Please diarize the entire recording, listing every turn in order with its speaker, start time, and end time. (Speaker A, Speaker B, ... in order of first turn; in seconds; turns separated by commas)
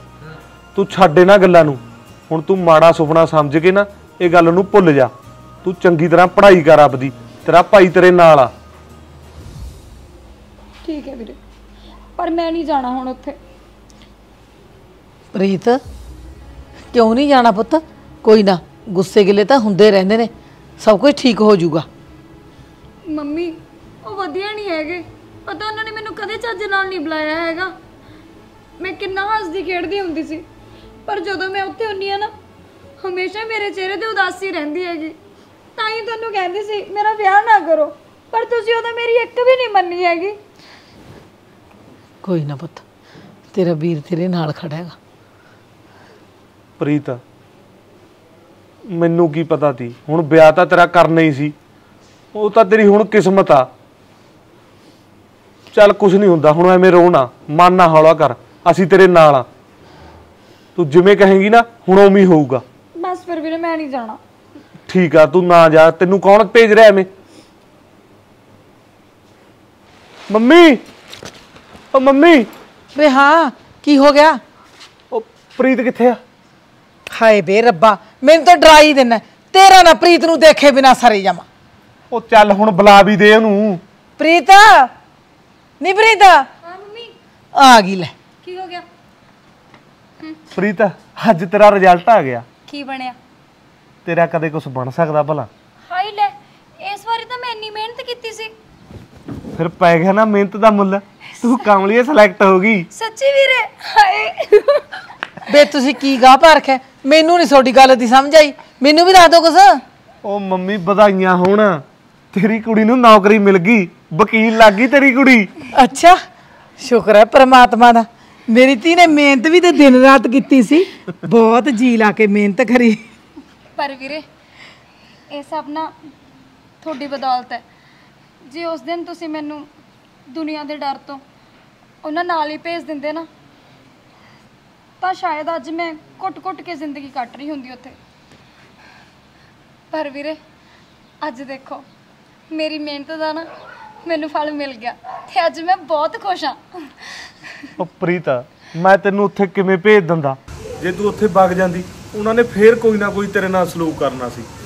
Speaker A: 0.7-5.1, Speaker A: 5.6-8.5, Speaker B: 10.8-11.4, Speaker B: 12.2-13.4, Speaker C: 15.3-15.8, Speaker C: 16.9-21.9, Speaker B: 23.1-27.7, Speaker B: 28.8-30.4, Speaker B: 31.1-32.3, Speaker B: 33.0-35.1, Speaker B: 35.7-40.4, Speaker C: 42.2-42.8, Speaker C: 43.5-45.0, Speaker A: 46.8-47.2, Speaker A: 48.9-51.5, Speaker A: 52.3-53.7, Speaker A: 55.7-59.5, Speaker A: 60.8-62.6, Speaker B: 63.0-64.2, Speaker A: 64.9-67.1, Speaker A: 70.3-70.8, Speaker A: 71.9-72.5, Speaker C: 72.9-74.4, Speaker A: 75.1-76.2, Speaker C: 77.1-81.4, Speaker A: 82.1-83.8, Speaker C: 84.2-84.9, Speaker C: 85.8-86.5, Speaker B: 86.6-87.1, Speaker C: 87.5-88.1, Speaker B: 88.4-88.8, Speaker A: 90.5-92.5, Speaker B: 92.7-93.2, Speaker A: 94.0-95.5, Speaker B: 95.8-98.5, Speaker A: 99.5-102.9, Speaker B: 102.9-105.0, Speaker C: 105.5-109.8, Speaker A: 110.2-115.5, Speaker C: 115.7-116.2, Speaker C: 116.8-123.0, Speaker B: 123.8-124.2, Speaker B: 125.3-125.9, Speaker B: 126.8-127.6, Speaker B: 128.4-129.7, Speaker B: 130.3-131.2, Speaker B: 132.0-133.3, Speaker B: 135.0-137.9, Speaker B: 139.9-140.4, Speaker B: 141.2-141.8, Speaker B: 142.5-143.5, Speaker B: 144.0-147.7, Speaker A: 147.8-154.5